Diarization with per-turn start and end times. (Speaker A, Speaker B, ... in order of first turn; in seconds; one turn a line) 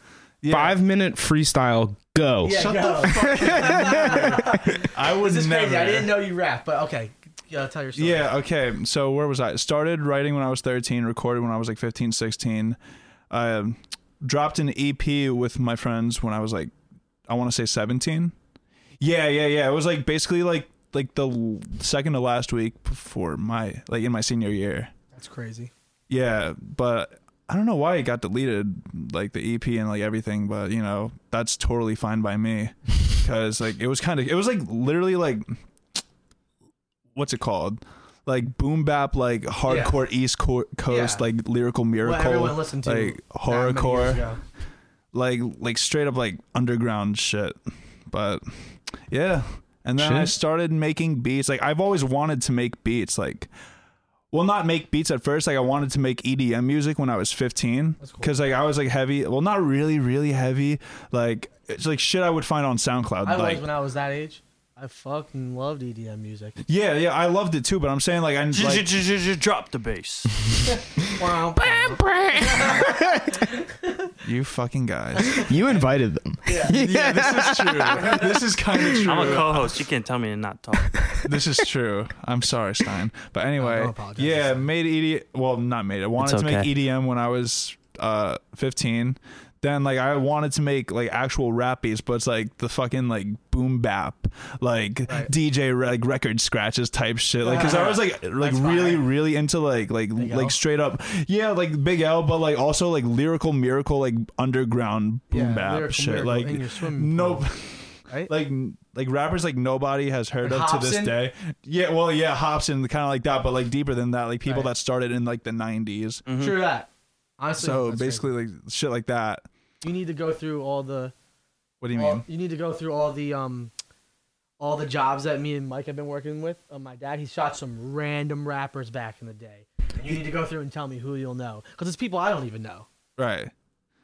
Speaker A: 0.4-0.8
Speaker B: 0.5-4.8
Speaker C: 2.4-8.3
Speaker A: 2.5-6.2
Speaker A: 8.0-12.8
Speaker A: 13.3-16.7
Speaker A: 17.3-18.4
Speaker A: 19.0-24.9
Speaker C: 25.1-25.7
Speaker A: 26.1-35.6
Speaker A: 37.1-44.2
Speaker C: 39.7-40.0
Speaker C: 40.9-41.2
Speaker C: 42.0-44.4
Speaker A: 45.1-47.6
Speaker A: 48.1-53.5
Speaker B: 50.0-50.3
Speaker A: 54.3-63.6
Speaker C: 58.0-58.3
Speaker C: 63.2-66.6
Speaker A: 66.7-68.9
Speaker D: 68.5-70.4
Speaker C: 71.0-74.1
Speaker B: 71.6-73.5
Speaker A: 74.2-75.6
Speaker B: 75.3-79.2
Speaker C: 76.5-76.8
Speaker A: 76.6-79.8
Speaker C: 78.0-78.4
Speaker D: 79.0-81.2
Speaker A: 81.2-116.3
Speaker C: 83.6-84.7
Speaker D: 86.2-86.7
Speaker C: 97.4-99.0
Speaker D: 97.6-98.0
Speaker C: 100.2-100.6
Speaker C: 105.3-107.5
Speaker C: 110.4-111.2
Speaker D: 116.3-116.6
Speaker C: 116.4-118.3
Speaker A: 117.6-119.5
Speaker C: 119.8-121.1
Speaker A: 121.8-122.2
Speaker C: 121.9-123.7
Speaker C: 124.6-132.9
Speaker A: 133.2-133.5